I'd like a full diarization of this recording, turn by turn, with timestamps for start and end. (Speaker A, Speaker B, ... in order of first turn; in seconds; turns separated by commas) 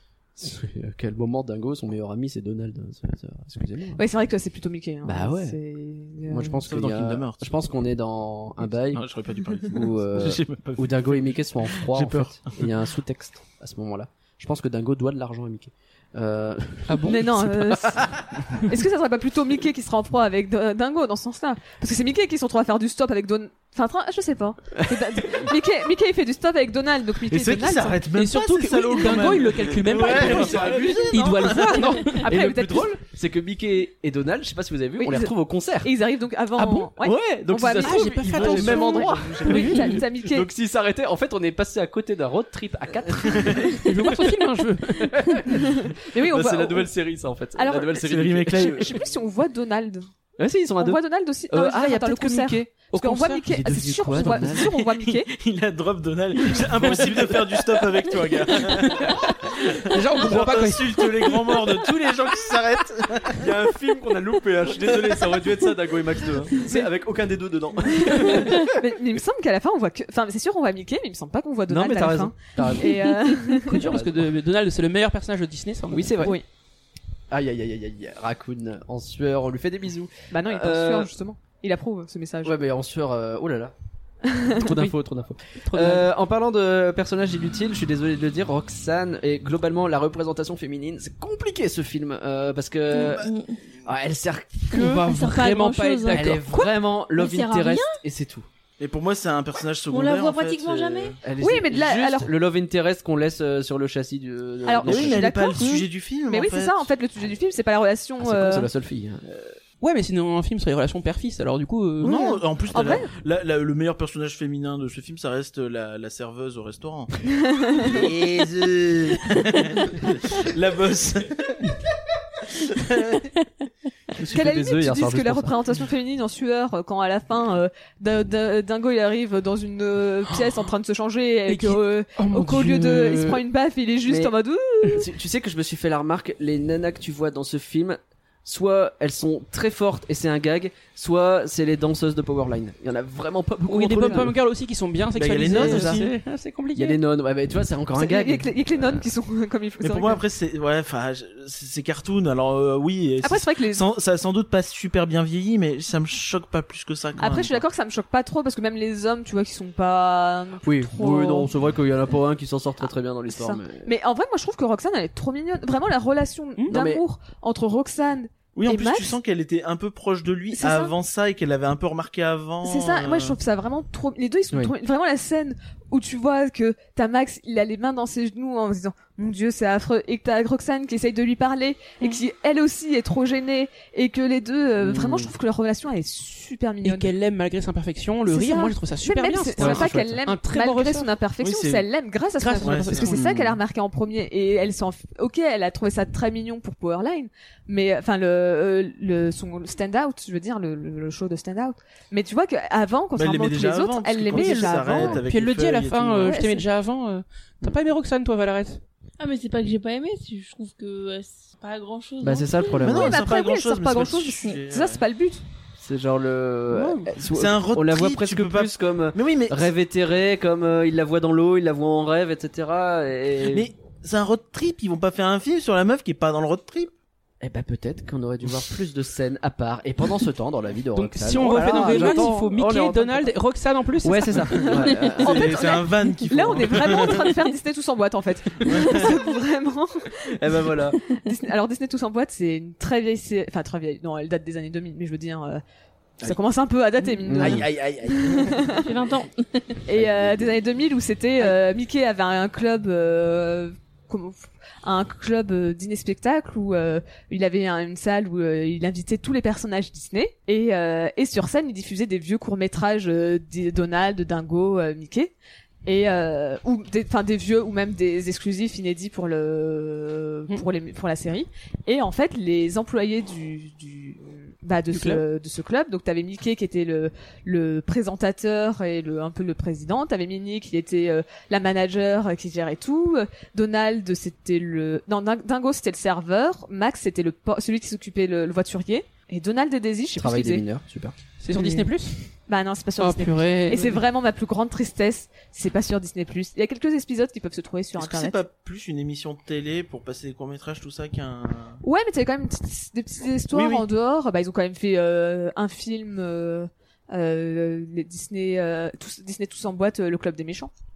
Speaker A: 0.4-4.0, Speaker B: 4.0-6.6, Speaker A: 5.0-5.6, Speaker A: 6.3-9.1, Speaker C: 6.7-7.5, Speaker C: 8.9-12.7, Speaker A: 9.7-18.1, Speaker D: 16.9-17.5, Speaker B: 17.0-18.1, Speaker B: 18.7-28.0, Speaker A: 24.7-25.5, Speaker C: 27.3-31.9, Speaker D: 28.1-32.8, Speaker A: 29.9-30.9, Speaker B: 30.2-33.0, Speaker A: 32.0-35.9, Speaker B: 35.0-40.5, Speaker D: 36.6-36.9, Speaker A: 37.0-44.3, Speaker D: 37.8-40.0, Speaker C: 38.3-39.5, Speaker D: 43.8-45.1, Speaker A: 44.9-48.9, Speaker B: 45.5-46.9, Speaker B: 47.6-50.1, Speaker C: 48.0-48.9, Speaker A: 50.4-52.7, Speaker B: 50.8-55.3, Speaker D: 52.9-53.4, Speaker A: 53.5-54.7, Speaker C: 54.2-63.5, Speaker A: 56.7-57.5, Speaker D: 59.9-61.5, Speaker A: 63.4-68.7, Speaker B: 66.6-66.9, Speaker B: 67.9-73.8, Speaker A: 71.7-73.0, Speaker D: 73.5-76.3, Speaker A: 73.7-74.3, Speaker A: 75.9-76.4, Speaker A: 77.3-81.1, Speaker B: 80.3-82.6, Speaker A: 82.4-83.7, Speaker B: 84.3-84.6, Speaker A: 84.4-93.3, Speaker D: 84.7-85.0, Speaker D: 85.7-86.1, Speaker E: 92.9-93.6, Speaker A: 93.8-95.1, Speaker D: 94.7-96.5, Speaker E: 95.0-98.0, Speaker A: 96.1-98.5, Speaker C: 98.8-101.2, Speaker E: 99.9-101.2, Speaker A: 101.2-105.3, Speaker B: 101.4-102.3, Speaker B: 104.7-108.7, Speaker C: 104.8-106.9, Speaker A: 108.2-109.6, Speaker D: 109.8-112.3, Speaker C: 112.0-117.1, Speaker B: 112.0-113.1, Speaker B: 117.3-118.1, Speaker C: 117.7-121.8, Speaker C: 122.4-123.3, Speaker A: 124.2-125.5, Speaker B: 124.3-135.1, Speaker D: 131.5-133.4, Speaker A: 134.1-144.3, Speaker D: 143.7-147.0, Speaker B: 144.0-144.3, Speaker C: 145.2-146.1, Speaker A: 145.5-146.0, Speaker A: 146.8-148.9, Speaker B: 147.9-150.2, Speaker C: 149.8-157.6, Speaker B: 153.2-153.8, Speaker B: 157.2-161.5, Speaker A: 160.6-163.9, Speaker B: 163.3-169.2, Speaker A: 166.7-167.0, Speaker C: 168.6-173.4, Speaker B: 170.6-170.9, Speaker B: 172.6-187.1, Speaker C: 184.8-185.3, Speaker D: 186.8-191.1, Speaker B: 188.3-205.2, Speaker A: 189.6-190.2, Speaker C: 191.4-191.8, Speaker D: 192.4-193.2, Speaker C: 192.6-193.2, Speaker A: 193.1-193.6, Speaker C: 203.2-206.4, Speaker D: 204.3-208.8, Speaker B: 206.2-206.7, Speaker E: 209.2-212.9, Speaker A: 212.2-213.2, Speaker C: 212.8-215.0, Speaker B: 212.9-215.4, Speaker A: 215.8-223.7, Speaker D: 216.7-217.1, Speaker C: 217.3-219.7, Speaker C: 223.5-226.9, Speaker A: 227.4-233.3, Speaker D: 230.9-234.7, Speaker C: 231.7-232.2, Speaker A: 234.0-235.4, Speaker C: 234.6-237.4, Speaker B: 234.7-245.6, Speaker C: 238.7-239.2, Speaker A: 240.3-241.0, Speaker B: 246.2-248.9, Speaker A: 247.3-247.7, Speaker C: 247.4-248.7, Speaker E: 248.8-249.5, Speaker B: 249.9-265.3, Speaker A: 250.0-250.5, Speaker B: 265.9-290.6, Speaker D: 274.9-275.2, Speaker A: 290.2-291.1, Speaker D: 291.4-292.2, Speaker B: 291.5-291.9, Speaker B: 292.5-298.4, Speaker D: 293.0-294.0, Speaker C: 298.0-301.8, Speaker B: 301.8-310.7, Speaker C: 303.5-303.9